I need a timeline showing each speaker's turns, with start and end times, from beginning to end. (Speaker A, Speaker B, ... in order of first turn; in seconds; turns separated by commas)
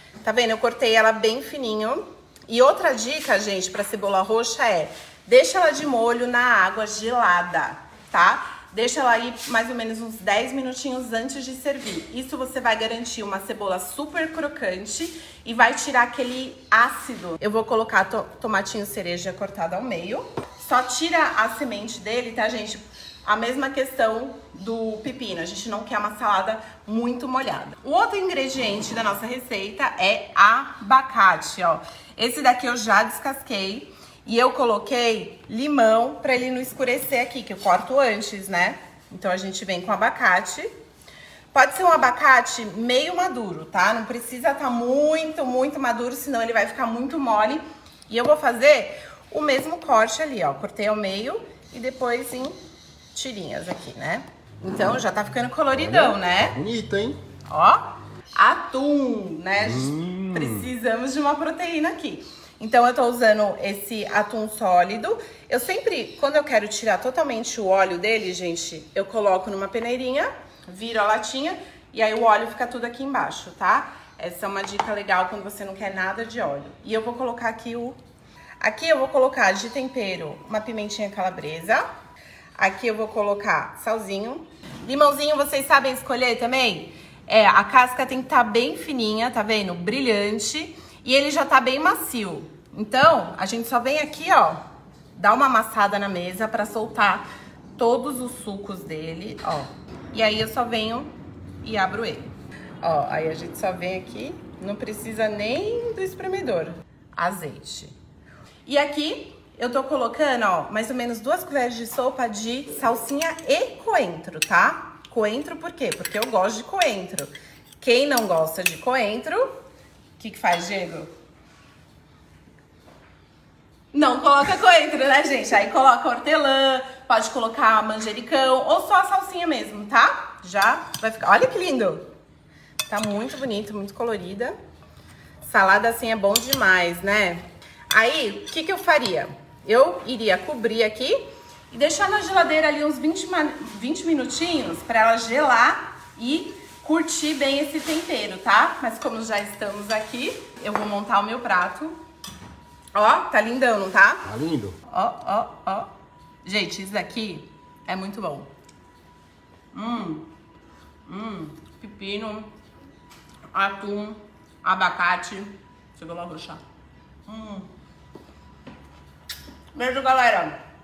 Speaker A: 0.2-40.7, Speaker A: 41.5-52.5, Speaker A: 53.1-56.6, Speaker B: 55.8-57.2, Speaker A: 57.5-57.8, Speaker A: 58.4-78.0, Speaker B: 59.6-60.6, Speaker A: 78.6-81.8, Speaker A: 82.6-94.6, Speaker A: 95.1-97.2, Speaker A: 97.8-102.3, Speaker A: 102.8-107.9, Speaker A: 108.6-119.5, Speaker A: 120.2-121.1, Speaker A: 123.9-132.0, Speaker A: 132.9-134.5, Speaker A: 135.4-141.2, Speaker A: 141.7-151.9, Speaker A: 152.9-154.2, Speaker B: 154.2-154.8, Speaker A: 154.9-155.9, Speaker A: 156.4-158.5, Speaker A: 159.7-160.2, Speaker A: 161.1-162.5, Speaker A: 163.5-166.6, Speaker A: 167.3-167.7, Speaker A: 169.7-170.5